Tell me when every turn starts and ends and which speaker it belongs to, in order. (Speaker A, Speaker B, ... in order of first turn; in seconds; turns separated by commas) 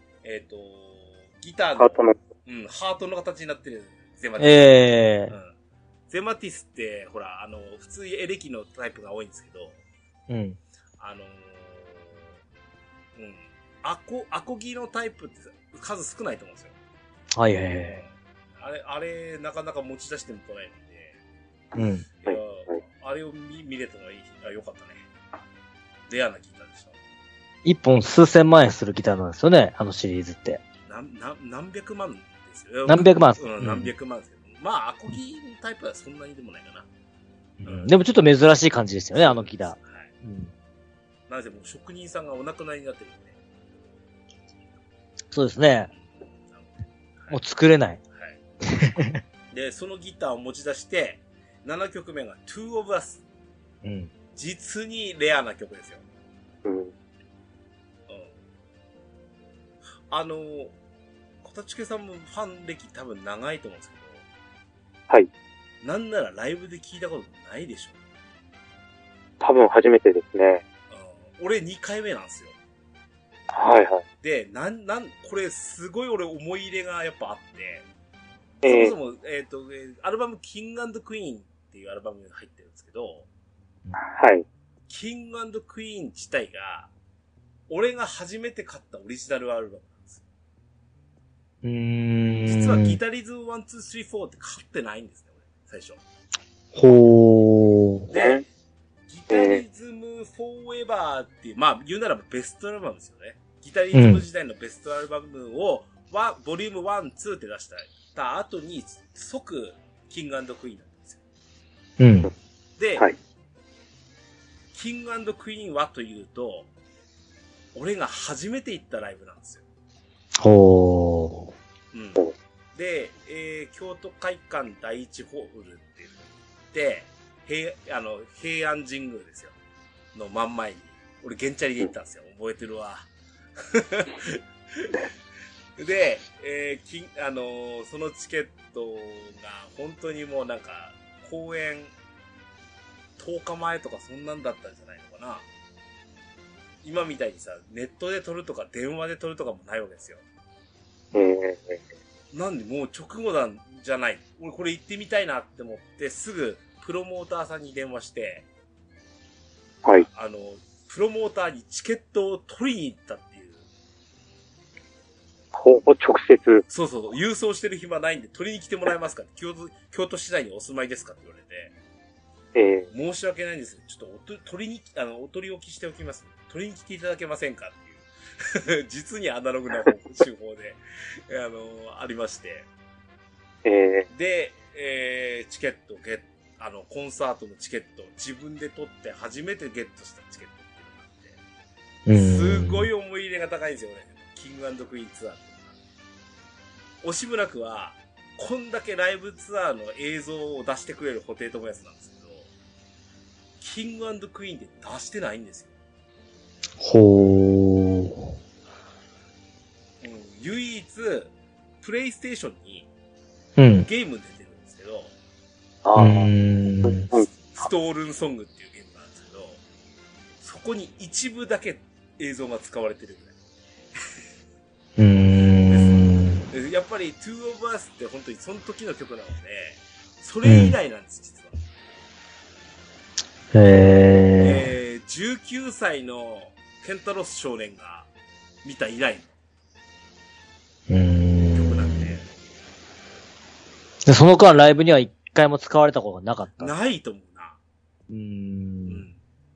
Speaker A: 0.2-5.5, Speaker B: 1.8-2.2, Speaker C: 4.4-5.3, Speaker A: 6.1-9.8, Speaker C: 10.3-10.6, Speaker A: 11.0-12.2, Speaker A: 13.2-16.7, Speaker C: 17.4-18.0, Speaker A: 17.8-21.2, Speaker C: 21.7-22.0, Speaker A: 22.2-25.1, Speaker A: 26.1-26.9, Speaker C: 27.6-30.6, Speaker A: 30.9-36.9, Speaker C: 32.9-33.9, Speaker C: 37.6-40.5, Speaker A: 37.6-37.9, Speaker A: 39.1-40.1, Speaker A: 41.3-43.4, Speaker C: 45.3-45.9, Speaker A: 46.0-47.4, Speaker C: 47.3-48.0, Speaker A: 48.1-48.4, Speaker C: 48.7-49.2, Speaker A: 49.5-53.2, Speaker C: 53.8-54.1, Speaker A: 54.3-56.0, Speaker B: 56.6-56.9, Speaker A: 58.1-58.3, Speaker A: 60.1-60.7, Speaker A: 61.4-64.2, Speaker A: 65.8-68.0, Speaker B: 69.4-70.6, Speaker A: 70.9-72.5, Speaker B: 73.5-74.0, Speaker A: 74.2-77.8, Speaker B: 78.6-78.9, Speaker A: 78.6-83.3, Speaker B: 84.0-84.4, Speaker A: 84.9-86.9, Speaker A: 87.7-90.2, Speaker C: 91.6-93.0, Speaker A: 92.5-96.0, Speaker C: 96.7-98.1, Speaker A: 98.1-98.5, Speaker B: 98.1-98.4, Speaker A: 99.1-111.2, Speaker B: 99.3-99.6, Speaker C: 103.9-104.2, Speaker C: 112.0-112.3, Speaker A: 112.8-113.1, Speaker A: 114.7-116.7, Speaker A: 117.7-119.6, Speaker C: 120.4-121.5, Speaker A: 121.9-129.5, Speaker A: 130.1-135.1, Speaker A: 135.8-141.9, Speaker A: 143.2-145.4, Speaker A: 146.8-150.2, Speaker B: 151.1-151.8, Speaker A: 152.3-158.4, Speaker A: 160.0-163.6, Speaker B: 165.6-166.6, Speaker A: 166.7-171.7, Speaker B: 172.5-172.9, Speaker A: 172.9-182.7, Speaker B: 183.6-184.1, Speaker A: 184.1-191.4, Speaker C: 192.1-192.9, Speaker A: 192.1-195.7, Speaker A: 197.0-202.5, Speaker A: 203.6-205.7, Speaker C: 206.8-208.3, Speaker A: 210.0-212.9, Speaker C: 213.6-213.9, Speaker A: 213.8-215.1, Speaker B: 215.8-216.3, Speaker C: 215.9-217.1, Speaker B: 216.8-217.3, Speaker A: 217.5-219.6, Speaker A: 220.4-223.3, Speaker C: 225.0-226.5, Speaker A: 225.7-231.6, Speaker C: 230.4-230.7, Speaker C: 233.5-234.6, Speaker A: 234.4-238.1, Speaker A: 238.6-239.3, Speaker C: 240.9-242.2, Speaker A: 241.5-242.2, Speaker C: 244.1-246.7, Speaker A: 246.6-247.6, Speaker C: 248.1-249.0, Speaker A: 248.8-249.2